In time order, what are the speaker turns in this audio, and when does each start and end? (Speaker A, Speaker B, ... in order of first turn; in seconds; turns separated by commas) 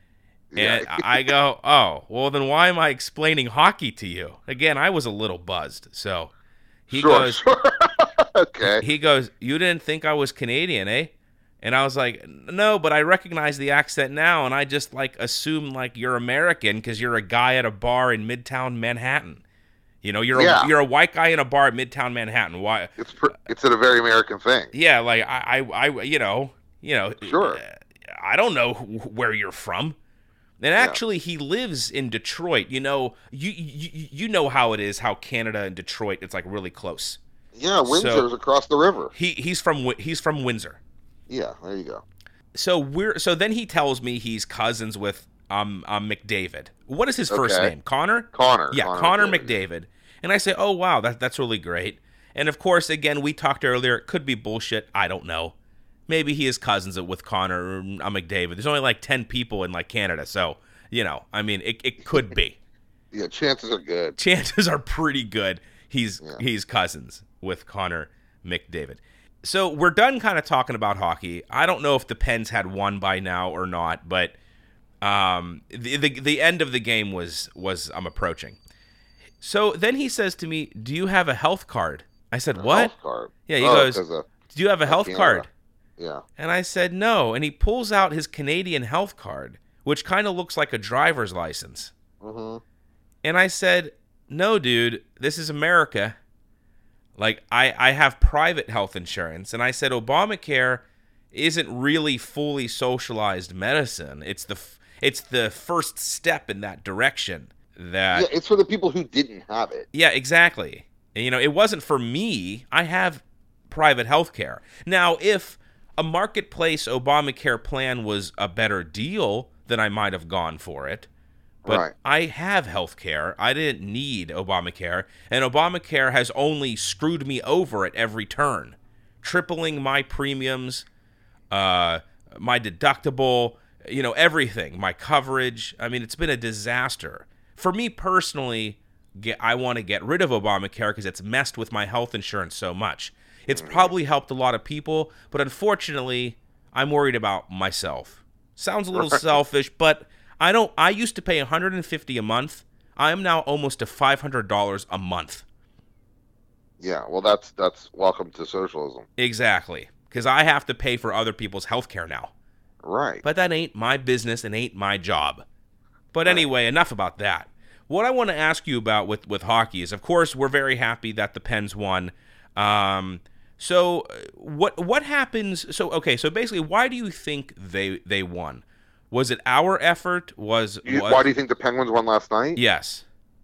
Speaker A: 0.5-1.3, Speaker B: 0.6-6.3, Speaker B: 6.9-7.4, Speaker A: 6.9-8.8, Speaker B: 8.6-19.4, Speaker B: 20.0-22.9, Speaker A: 20.3-20.7, Speaker A: 23.0-24.7, Speaker B: 24.7-29.9, Speaker A: 27.2-27.6, Speaker B: 30.6-37.2, Speaker A: 37.5-39.1, Speaker B: 37.9-38.3, Speaker B: 39.1-40.8, Speaker A: 41.3-42.0, Speaker B: 42.5-55.5, Speaker A: 47.3-47.7, Speaker A: 48.3-49.5, Speaker B: 56.1-62.6, Speaker A: 63.1-64.2, Speaker B: 64.2-74.3, Speaker B: 75.0-78.6, Speaker B: 79.4-82.9, Speaker A: 82.5-84.3, Speaker B: 83.5-85.5, Speaker A: 84.8-85.5, Speaker A: 86.0-86.2, Speaker B: 86.4-91.9, Speaker A: 92.2-92.6, Speaker B: 93.2-96.2, Speaker B: 97.2-108.3, Speaker A: 108.1-109.9, Speaker B: 109.9-121.1, Speaker A: 121.7-121.9, Speaker B: 121.7-130.8, Speaker B: 131.5-155.4, Speaker A: 143.5-143.9, Speaker A: 148.9-149.2, Speaker A: 156.8-159.1, Speaker B: 159.2-162.3, Speaker A: 162.8-163.2, Speaker B: 163.2-165.4, Speaker B: 166.1-181.3, Speaker A: 180.8-182.6, Speaker B: 182.6-183.0